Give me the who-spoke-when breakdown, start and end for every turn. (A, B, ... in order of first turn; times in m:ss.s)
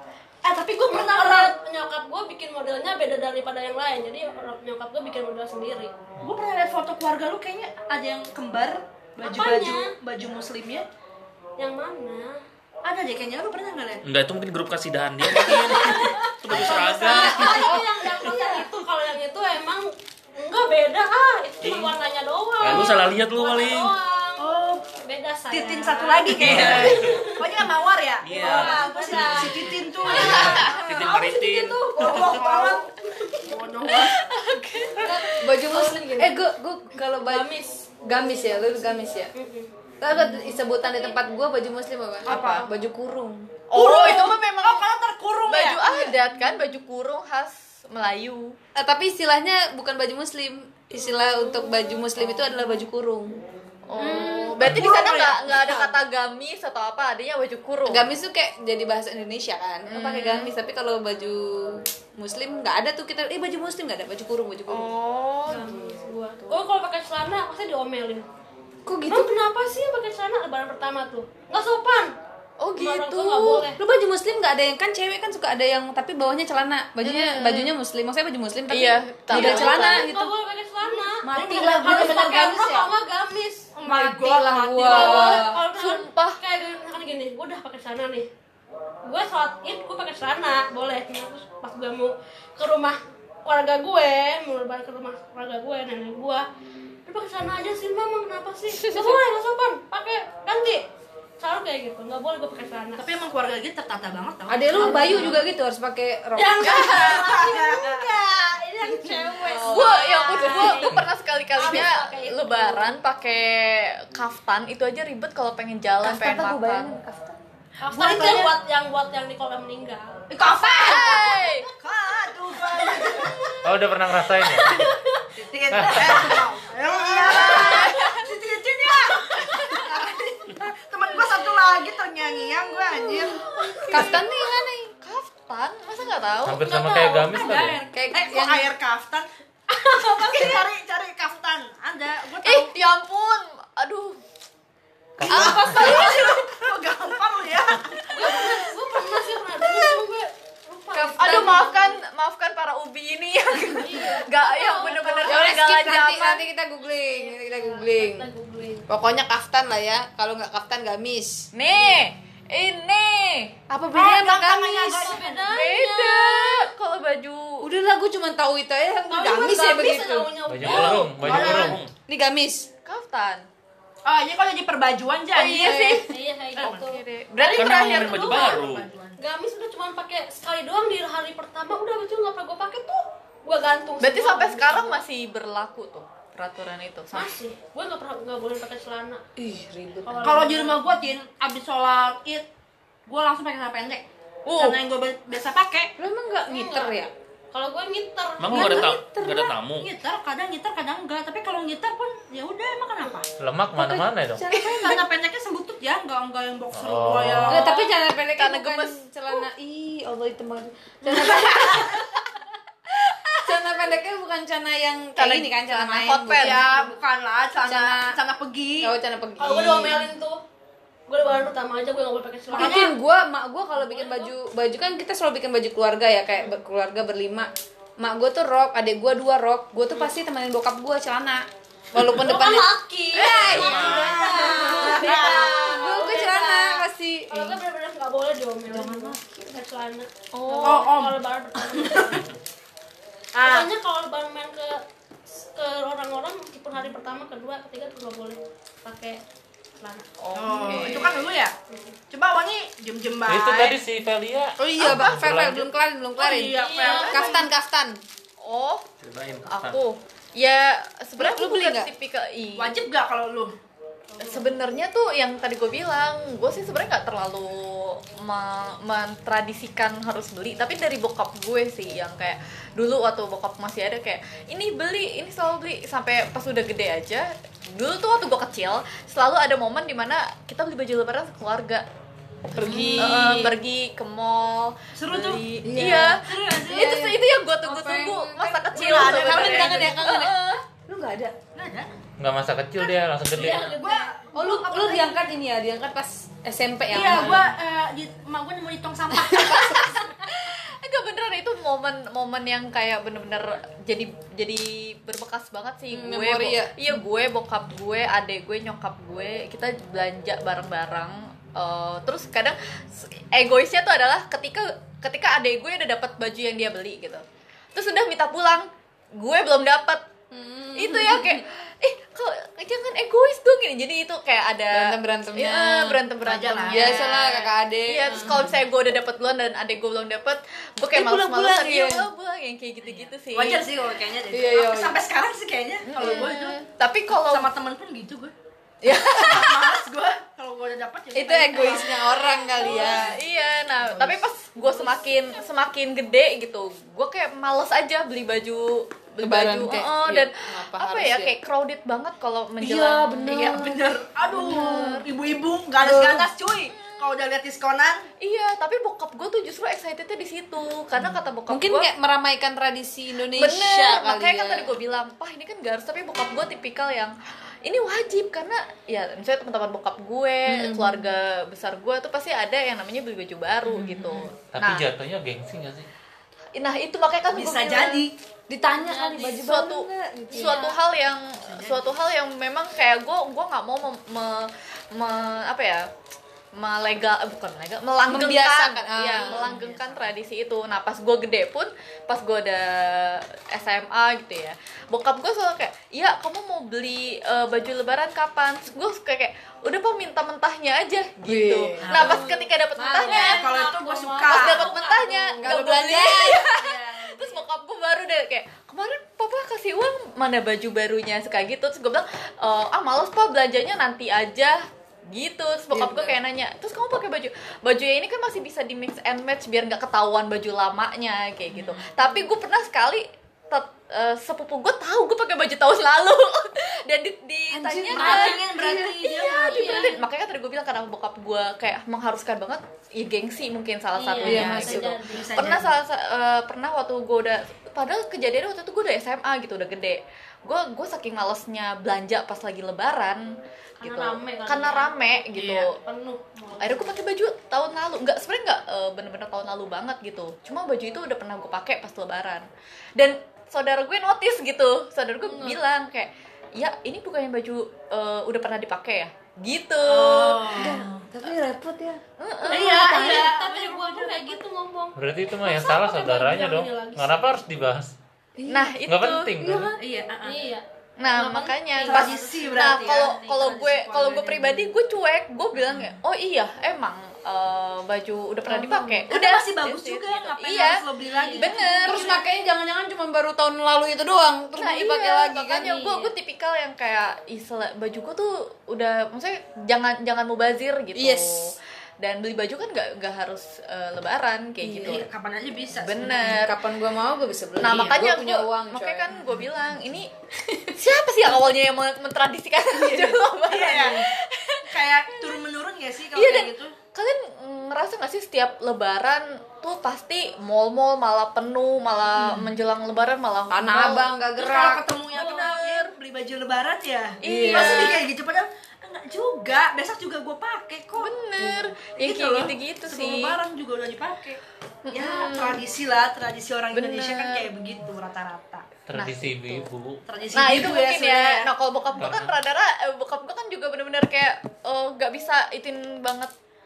0:00.4-0:05.9 A
0:00.8-0:01.5 B
0:06.2-0:10.8 B
0:09.2-0:09.9 A
0:11.6-0:12.4 A
0:12.8-0:14.0 B
0:14.0-0:18.3 C
0:15.3-0:27.5 A
0:16.5-0:16.9 D
0:21.6-0:21.9 C
0:22.6-0:24.0 C
0:24.4-0:24.8 B
0:25.5-0:34.2 B
0:26.4-0:27.2 C
0:26.4-0:27.2 D
0:28.2-0:32.3 C
0:28.3-0:33.7 A
0:30.4-0:31.3 E
0:32.0-0:32.8 E
0:33.9-0:35.5 F
0:35.0-0:36.4 A
0:35.0-0:39.3 E
0:37.2-0:39.7 A
0:40.0-0:43.5 E
0:40.3-0:41.2 A
0:42.2-0:42.7 B
0:42.3-0:42.7 F
0:43.7-0:44.8 F
0:43.7-0:46.2 B
0:45.5-0:48.6 F
0:48.8-0:53.4 E
0:53.9-0:58.1 F
0:54.0-0:56.0 B
0:54.0-0:54.7 E
0:57.9-1:04.9 E
0:59.8-1:00.5 F
1:04.7-1:05.8 F
1:05.4-1:08.2 A
1:08.8-1:09.3 E
1:09.1-1:12.1 A
1:12.6-1:13.7 F
1:12.8-1:13.8 A
1:13.8-1:20.3 E
1:17.0-1:17.7 F
1:18.7-1:20.0 F
1:19.3-1:24.2 A
1:21.2-1:22.9 E
1:21.3-1:22.4 B
1:23.7-1:25.4 B
1:23.9-1:25.6 E
1:24.7-1:28.3 A
1:25.7-1:26.4 F
1:29.0-1:36.4 A
1:37.0-1:40.8 A
1:38.8-1:39.1 F
1:41.4-1:43.1 A
1:43.0-1:45.4 B
1:44.5-1:47.2 E
1:44.7-1:45.4 A
1:46.3-1:52.9 A
1:46.6-1:48.1 B
1:49.4-1:50.0 E
1:49.4-1:57.0 F
1:56.0-1:57.4 E
1:57.8-2:00.2 A
1:57.9-1:58.5 B
1:58.0-1:58.5 E
2:00.3-2:01.2 E
2:00.3-2:03.4 B
2:00.6-2:01.7 F
2:02.8-2:03.6 A
2:03.6-2:04.9 D
2:04.5-2:05.2 A
2:04.7-2:13.4 B
2:05.7-2:06.4 D
2:07.2-2:07.8 E
2:07.3-2:08.2 F
2:13.0-2:14.9 E
2:13.0-2:17.3 F
2:16.4-2:17.8 D
2:17.1-2:22.7 B
2:17.9-2:18.7 E
2:22.4-2:24.2 F
2:25.2-2:25.8 D
2:25.2-2:26.4 E
2:25.2-2:28.6 B
2:25.3-2:26.1 F
2:28.1-2:32.0 A
2:30.9-2:31.6 E
2:31.1-2:36.4 F
2:33.7-2:35.6 A
2:35.2-2:38.3 E
2:37.1-2:38.9 A
2:38.9-2:41.5 E
2:41.5-2:43.5 F
2:41.7-2:42.0 A
2:43.7-2:45.3 E
2:43.9-2:45.5 B
2:45.0-2:46.7 A
2:45.5-2:47.7 F
2:47.6-2:50.6 E
2:49.1-2:51.3 A
2:50.5-2:51.8 D
2:50.6-2:51.8 B
2:50.7-2:51.9 C
2:52.1-2:52.7 E
2:52.8-2:53.5 F
2:54.0-2:55.9 B
2:55.4-2:56.1 F
2:55.4-2:56.1 E
2:56.0-2:58.6 A
2:56.6-2:56.9 B
2:56.6-2:58.5 F
2:57.5-2:58.9 C
2:57.5-2:59.2 B
2:59.2-3:05.0 A
3:04.0-3:07.3 F
3:07.1-3:09.2 A
3:09.4-3:10.5 E
3:10.0-3:10.9 A
3:10.2-3:12.4 B
3:13.1-3:15.9 B
3:14.4-3:14.8 F
3:16.0-3:17.1 E
3:16.5-3:18.9 A
3:18.4-3:19.9 C
3:18.5-3:19.5 E
3:19.8-3:23.3 B
3:23.4-3:24.5 D
3:23.7-3:25.0 E
3:24.5-3:27.7 B
3:26.7-3:27.6 D
3:27.5-3:32.1 E
3:27.6-3:27.9 A
3:28.3-3:29.4 F
3:33.4-3:36.8 E
3:35.2-3:36.7 F
3:36.4-3:38.9 B
3:37.6-3:38.2 E
3:38.8-3:40.1 E
3:39.4-3:40.4 A
3:41.1-3:43.0 A
3:42.5-3:57.6 E
3:42.6-3:42.9 B
3:43.7-3:44.3 A
3:52.0-4:02.3 A
3:53.1-3:53.9 F
3:53.4-3:54.2 C
3:53.5-3:55.9 B
3:58.7-3:59.6 E
4:00.3-4:00.9 F
4:00.6-4:01.2 B
4:01.7-4:02.0 B
4:03.3-4:03.7 B
4:03.4-4:09.2 A
4:09.8-4:10.1 A
4:10.2-4:11.2 F
4:10.3-4:11.5 B
4:10.7-4:11.1 A
4:11.7-4:12.0 A
4:12.1-4:13.8 B
4:13.3-4:15.7 D
4:14.6-4:18.0 E
4:14.8-4:15.2 B
4:16.2-4:17.5 B
4:16.5-4:17.4 A
4:18.4-4:18.8 F
4:19.0-4:19.8 C
4:19.5-4:22.8 F
4:21.2-4:21.9 E
4:22.6-4:23.5 B
4:24.1-4:24.5 B
4:24.2-4:41.8 F
4:42.5-4:50.6 F
4:42.5-4:43.6 E
4:44.9-4:47.0 B
4:45.6-4:51.4 E
4:48.7-4:50.1 B
4:51.5-4:51.9 B
4:52.2-4:53.8 D
4:53.3-4:54.2 A
4:53.4-4:55.2 B
4:54.3-4:57.5 E
4:56.9-5:00.1 B
4:59.1-5:00.2 E
5:00.1-5:17.2 F
5:05.9-5:06.9 E
5:17.7-5:20.0 F
5:20.3-5:21.4 E
5:20.7-5:33.7 F
5:24.7-5:26.0 E
5:26.2-5:27.0 B
5:26.7-5:28.5 E
5:30.9-5:32.1 E
5:31.0-5:31.8 B
5:32.9-5:38.3 B
5:34.3-5:35.0 E
5:35.9-5:37.5 F
5:38.8-5:39.5 E
5:38.8-5:39.7 F
5:39.1-5:43.2 B
5:41.1-5:43.2 E
5:42.6-5:53.4 F
5:43.9-5:44.2 B
5:49.2-5:51.3 E
5:52.6-5:55.0 E
5:53.2-5:58.1 B
5:54.3-5:55.0 F
5:55.8-5:56.3 E
5:56.7-5:57.1 F
5:58.2-6:01.9 F
6:01.5-6:04.8 E
6:03.3-6:14.8 F
6:10.4-6:11.1 E
6:13.7-6:14.2 E
6:13.8-6:14.1 B
6:14.5-6:15.9 D
6:16.6-6:18.1 F
6:17.3-6:18.1 B
6:18.5-6:20.6 E
6:18.7-6:19.3 A
6:19.3-6:25.9 F
6:20.3-6:20.8 A
6:21.4-6:21.9 B
6:26.5-6:43.4 F
6:28.1-6:29.6 E
6:29.2-6:30.0 B
6:41.2-6:43.4 E
6:41.8-6:42.2 B
6:42.8-6:45.4 A
6:43.0-6:44.7 B
6:44.2-7:08.4 F
6:44.9-6:46.8 E
6:46.6-6:47.4 B
6:55.7-6:56.2 E
7:01.5-7:01.8 B
7:07.5-7:09.0 E
7:07.9-7:09.9 B
7:08.1-7:08.4 A
7:09.1-7:25.8 F
7:09.2-7:10.0 A
7:14.0-7:15.4 A
7:14.2-7:15.0 E
7:15.1-7:15.7 B
7:23.8-7:26.9 A
7:26.6-7:40.7 F
7:35.3-7:35.6 A
7:39.8-7:41.0 B
7:40.6-7:42.0 E
7:42.2-7:42.9 F
7:42.5-7:44.3 B
7:42.5-7:47.3 A
7:42.6-7:43.3 E
7:45.0-7:47.9 D
7:48.4-7:48.8 E
7:48.5-7:49.4 F
7:48.8-7:49.8 D
7:49.4-7:49.8 E
7:49.8-7:50.5 B
7:50.2-7:52.8 A
7:51.0-8:02.1 F
7:51.8-7:54.7 B
7:55.6-7:56.0 B
7:58.4-7:59.1 E
7:59.1-8:02.2 B
8:01.1-8:02.0 A
8:01.5-8:06.0 E
8:04.6-8:15.0 F
8:05.6-8:06.1 A
8:10.9-8:11.5 E
8:14.6-8:15.0 E
8:14.8-8:16.4 B
8:15.7-8:16.6 F
8:16.0-8:19.3 E
8:17.6-8:20.1 F
8:17.6-8:18.0 B
8:20.4-8:20.7 E
8:20.8-8:25.4 F
8:22.9-8:24.1 B
8:24.6-8:26.7 B
8:26.1-8:34.1 F
8:32.2-8:32.5 B
8:33.5-8:34.9 E
8:34.4-8:41.1 B
8:35.1-8:35.9 F
8:37.2-8:38.0 E
8:37.2-8:38.0 F
8:41.0-8:43.4 F
8:41.4-8:41.6 E
8:41.9-8:44.4 B
8:44.8-8:45.6 F
8:44.9-8:48.6 B
8:46.7-8:47.5 F
8:48.9-8:50.0 D
8:48.9-8:49.7 F
8:50.1-8:51.5 B
8:50.3-8:56.3 F
8:52.0-8:52.4 D